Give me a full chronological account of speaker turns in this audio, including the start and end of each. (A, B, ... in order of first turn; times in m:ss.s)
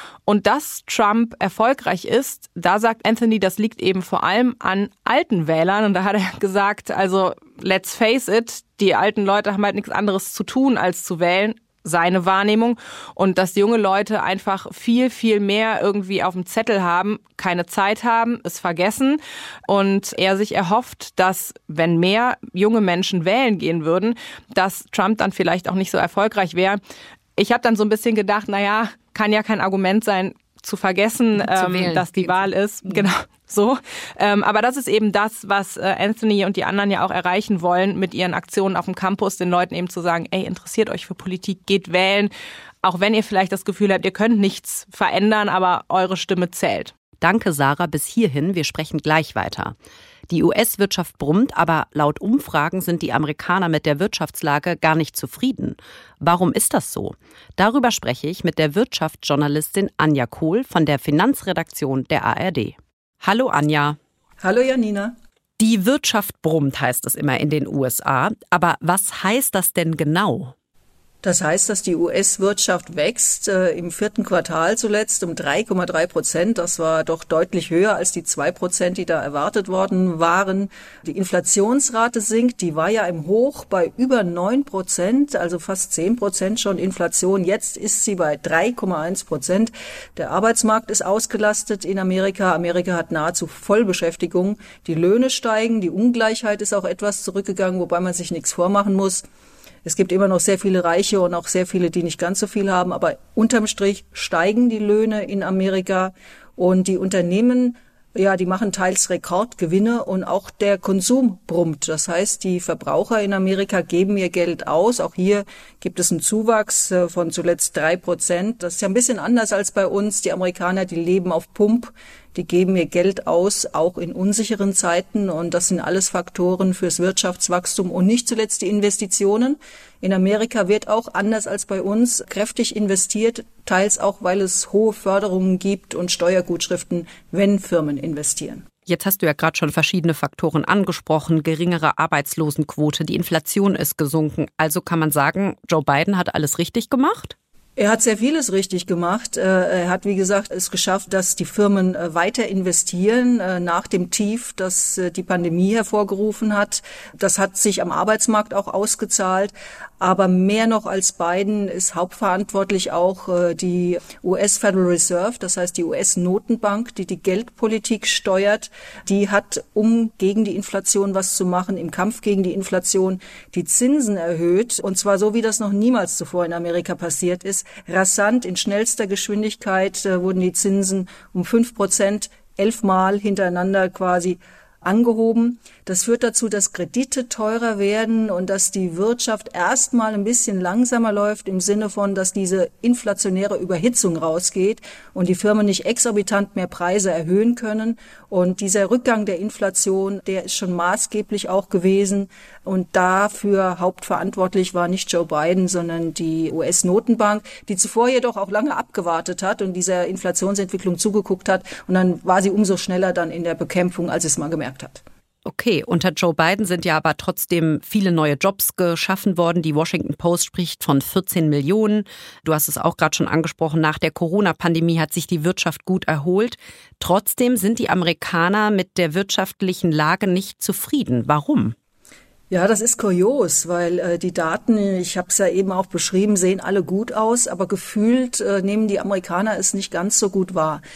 0:00.3-0:26.8 A
0:27.4-0:42.3 A
0:31.4-0:33.1 B
0:42.8-0:46.9 A
0:47.2-0:49.7 B
0:50.3-1:04.0 B
1:04.4-1:05.1 C
1:05.6-1:10.5 B
1:11.2-1:39.2 C
1:39.8-2:18.6 C
2:18.8-2:27.4 B
2:27.8-3:35.0 C
3:35.4-3:51.8 B
3:52.5-4:00.8 C